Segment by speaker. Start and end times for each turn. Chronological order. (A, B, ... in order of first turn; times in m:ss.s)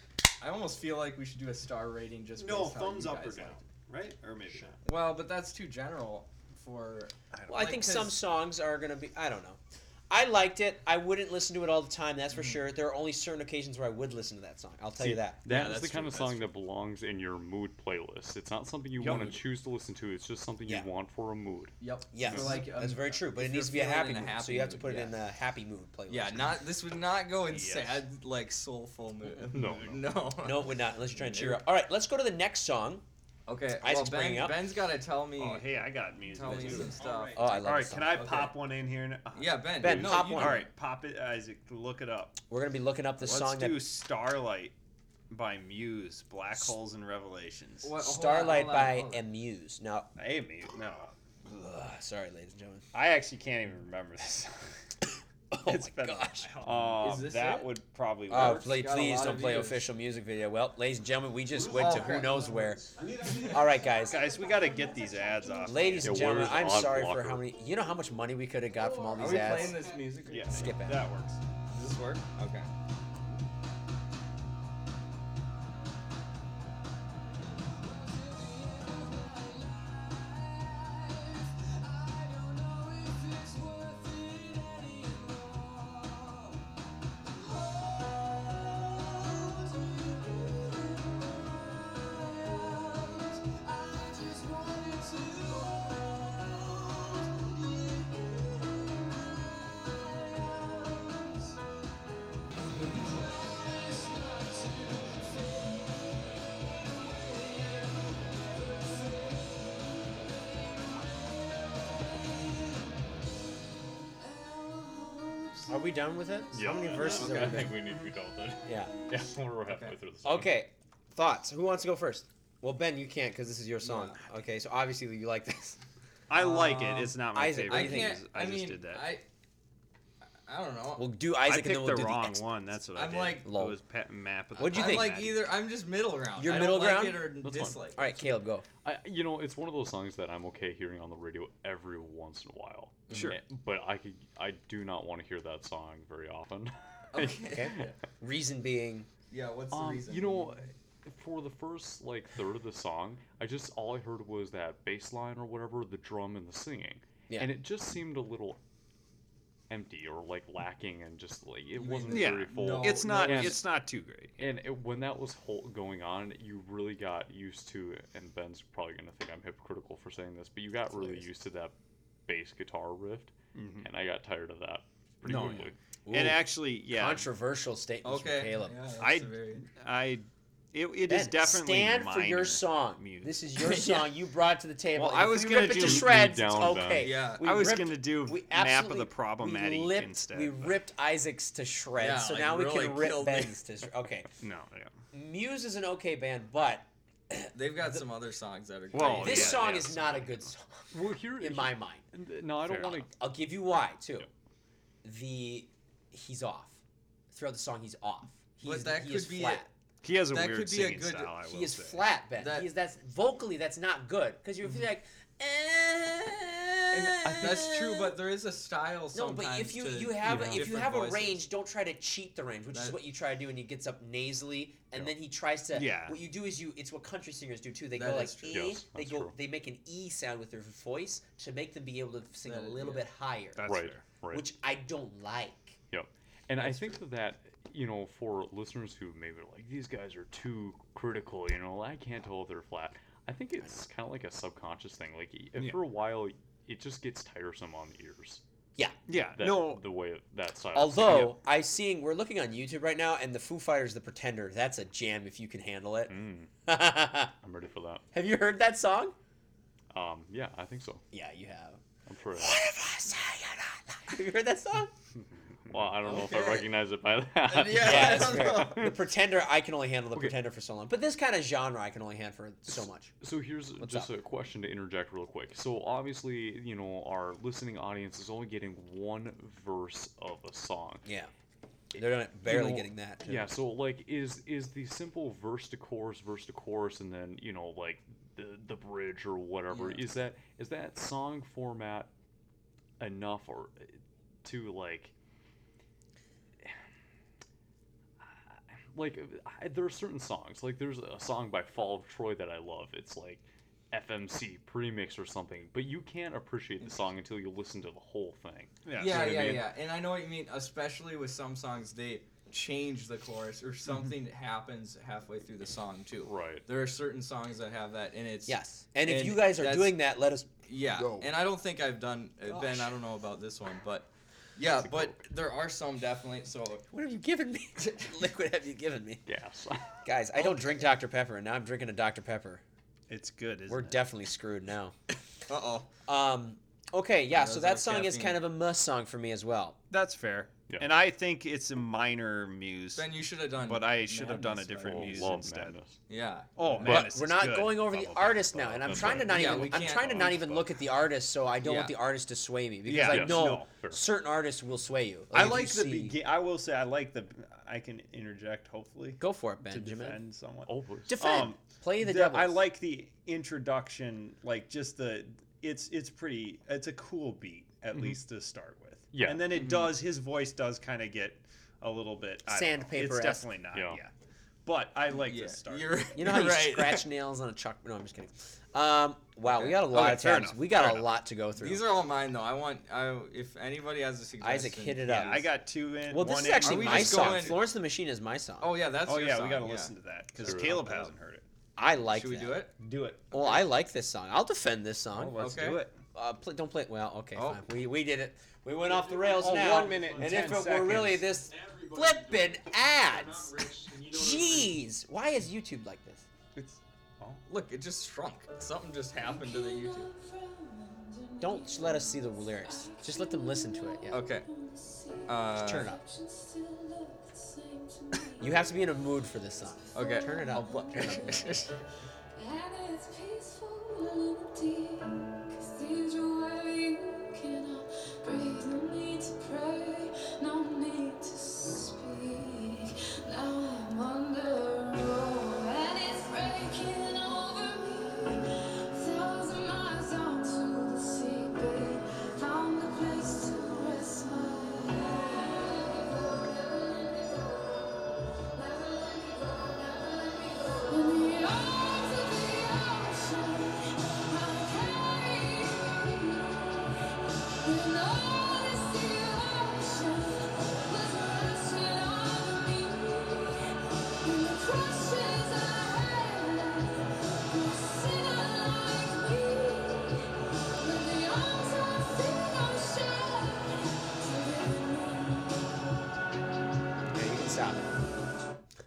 0:00.4-0:03.6 A
0:02.4-0:04.8 B
0:04.8-0:08.2 A
0:07.3-0:07.9 B
0:07.5-0:15.4 C
0:12.3-0:12.6 A
0:15.0-0:21.7 D
0:15.4-0:16.5 A
0:19.0-0:19.4 B
0:21.8-0:25.2 A
0:22.1-0:26.6 C
0:22.3-0:22.6 D
0:26.1-0:31.6 A
0:27.5-0:28.0 B
0:29.5-0:30.1 D
0:30.4-0:33.0 C
0:33.5-0:35.6 A
0:33.8-0:34.6 C
0:35.4-0:42.4 B
0:36.3-0:38.6 A
0:36.7-0:38.4 C
0:39.3-0:40.7 A
0:39.8-0:40.6 C
0:39.8-0:40.1 D
0:42.4-0:43.8 C
0:43.2-0:44.7 B
0:45.3-0:47.9 B
0:47.8-0:49.2 A
0:48.0-0:50.1 C
0:50.2-0:51.1 B
0:51.4-0:52.8 C
0:52.9-0:54.8 B
0:55.5-0:56.5 C
0:55.5-0:58.9 B
0:56.4-0:57.7 A
0:58.3-1:04.3 C
0:58.3-0:59.9 A
1:01.7-1:02.4 A
1:01.8-1:02.4 B
1:03.2-1:03.6 A
1:03.3-1:06.6 B
1:04.4-1:05.8 E
1:05.6-1:09.8 C
1:06.0-1:07.5 D
1:09.1-1:10.7 A
1:10.3-1:11.4 B
1:10.5-1:11.1 C
1:11.7-1:12.7 A
1:17.8-1:26.6 E
1:27.3-1:41.6 E
1:42.7-1:45.8 E
1:46.6-1:49.6 E
1:50.1-1:52.8 E
1:54.2-1:55.9 E
1:55.7-1:57.8 C
1:56.5-2:00.5 D
1:56.7-1:58.1 B
1:56.9-1:57.7 A
1:58.6-1:58.9 C
1:59.6-2:00.0 A
2:00.2-2:05.8 C
2:03.8-2:04.2 A
2:06.3-2:09.1 B
2:06.4-2:09.2 A
2:07.3-2:08.2 C
2:10.4-2:11.1 A
2:10.9-2:12.4 C
2:11.4-2:15.5 B
2:13.0-2:13.5 A
2:13.4-2:13.8 C
2:14.6-2:15.2 C
2:14.7-2:18.1 A
2:16.4-2:17.3 C
2:17.4-2:17.8 D
2:18.0-2:18.6 C
2:18.8-2:27.8 D
2:23.1-2:23.4 B
2:27.1-2:28.0 A
2:27.4-2:29.1 C
2:29.3-2:30.6 A
2:29.7-2:38.6 D
2:39.7-2:43.7 D
2:41.8-2:43.6 A
2:42.1-2:44.4 B
2:44.4-2:51.7 D
2:50.9-2:51.2 C
2:52.3-2:55.8 D
2:53.5-2:53.9 B
2:55.3-2:57.3 B
2:55.3-2:58.8 C
2:58.0-2:59.6 A
2:59.0-3:03.3 B
3:01.0-3:14.3 C
3:03.6-3:04.1 A
3:04.9-3:06.1 B
3:05.6-3:07.2 D
3:07.0-3:07.7 A
3:07.3-3:10.8 B
3:12.0-3:13.6 A
3:14.4-3:14.9 B
3:15.1-3:17.5 C
3:17.5-3:19.8 A
3:18.9-3:20.5 B
3:19.0-3:22.0 C
3:20.9-3:23.1 D
3:22.6-3:23.0 B
3:22.7-3:24.3 C
3:25.0-3:26.8 C
3:27.3-3:29.7 C
3:28.6-3:29.7 A
3:30.0-3:32.0 B
3:30.3-3:31.4 A
3:31.4-3:38.2 C
3:32.4-3:32.7 A
3:36.9-3:41.4 A
3:37.2-3:37.6 D
3:39.1-3:53.6 C
3:40.2-3:40.7 D
3:42.7-3:43.0 A
3:45.7-3:46.2 B
3:47.9-3:48.7 A
3:48.5-3:49.3 D
3:52.4-3:53.0 A
3:53.5-3:54.0 B
3:53.6-3:54.5 D
3:54.3-3:55.8 C
3:55.9-4:08.4 D
4:09.1-4:09.8 B
4:09.3-4:11.4 D
4:10.7-4:16.1 C
4:16.1-4:16.5 D
4:16.6-4:17.3 C
4:17.4-4:18.0 D
4:18.1-4:19.1 C
4:19.9-4:21.0 D
4:21.1-4:21.8 C
4:22.1-4:22.6 D
4:22.3-4:24.9 C
4:25.7-4:29.0 D
4:26.0-4:26.6 A
4:27.5-4:28.9 A
4:27.7-4:33.1 C
4:32.7-4:41.0 D
4:33.8-4:34.1 C
4:41.0-4:41.3 C
4:41.9-4:43.5 C
4:42.4-4:52.1 D
4:49.7-4:50.0 A
4:53.0-4:55.1 D
4:58.5-5:09.5 D
5:08.8-5:09.7 B
5:09.0-5:20.0 A
5:16.2-5:16.6 D
5:18.4-5:20.5 C
5:20.7-5:26.8 A
5:21.0-5:21.2 B
5:22.5-5:22.9 C
5:24.8-5:25.2 D
5:26.9-5:29.2 C
5:29.3-5:30.0 D
5:30.0-5:32.6 C
5:30.4-5:30.6 B
5:33.1-5:34.1 B
5:33.7-5:34.9 C
5:35.5-5:35.9 A
5:36.1-5:39.8 C
5:37.3-5:38.4 A
5:39.9-5:45.8 B
5:42.9-5:45.3 A
5:44.8-5:46.0 D
5:46.1-5:47.0 A
5:46.6-5:50.4 B
5:46.8-5:56.2 C
5:48.8-5:49.4 D
5:49.2-5:50.6 A
5:51.6-5:52.0 A
5:52.8-5:53.7 B
5:53.1-5:54.0 D
5:55.3-6:14.1 B
5:59.2-6:00.2 C
6:00.7-6:01.3 D
6:01.1-6:02.6 C
6:07.9-6:08.2 D
6:09.1-6:09.7 D
6:09.5-6:09.9 A
6:12.4-6:13.5 C
6:13.7-6:14.0 D
6:14.6-6:16.1 B
6:15.1-6:17.0 A
6:16.1-6:21.9 C
6:19.4-6:20.2 A
6:19.8-6:21.1 B
6:21.6-6:25.3 A
6:24.4-6:25.5 C
6:25.0-6:27.6 B
6:26.1-6:28.7 C
6:26.6-6:27.6 A
6:28.6-6:29.9 A
6:29.0-6:31.4 B
6:30.4-6:31.0 D
6:31.8-6:32.6 C
6:32.1-6:32.7 A
6:32.8-6:33.6 B
6:33.3-6:35.4 C
6:35.1-6:36.0 B
6:35.4-6:35.8 A
6:36.1-6:46.2 C
6:37.3-6:37.6 A
6:39.0-6:41.4 B
6:46.5-6:47.4 B
6:47.5-6:50.1 A
6:49.2-7:01.7 E
6:51.4-6:54.2 C
6:54.1-6:54.4 A
6:55.3-6:55.9 A
6:55.6-6:56.0 C
6:58.4-7:01.6 C
6:59.9-7:01.6 A
7:02.3-7:37.0 E
7:37.6-7:50.2 E
7:50.8-7:55.7 E
7:57.1-7:58.0 C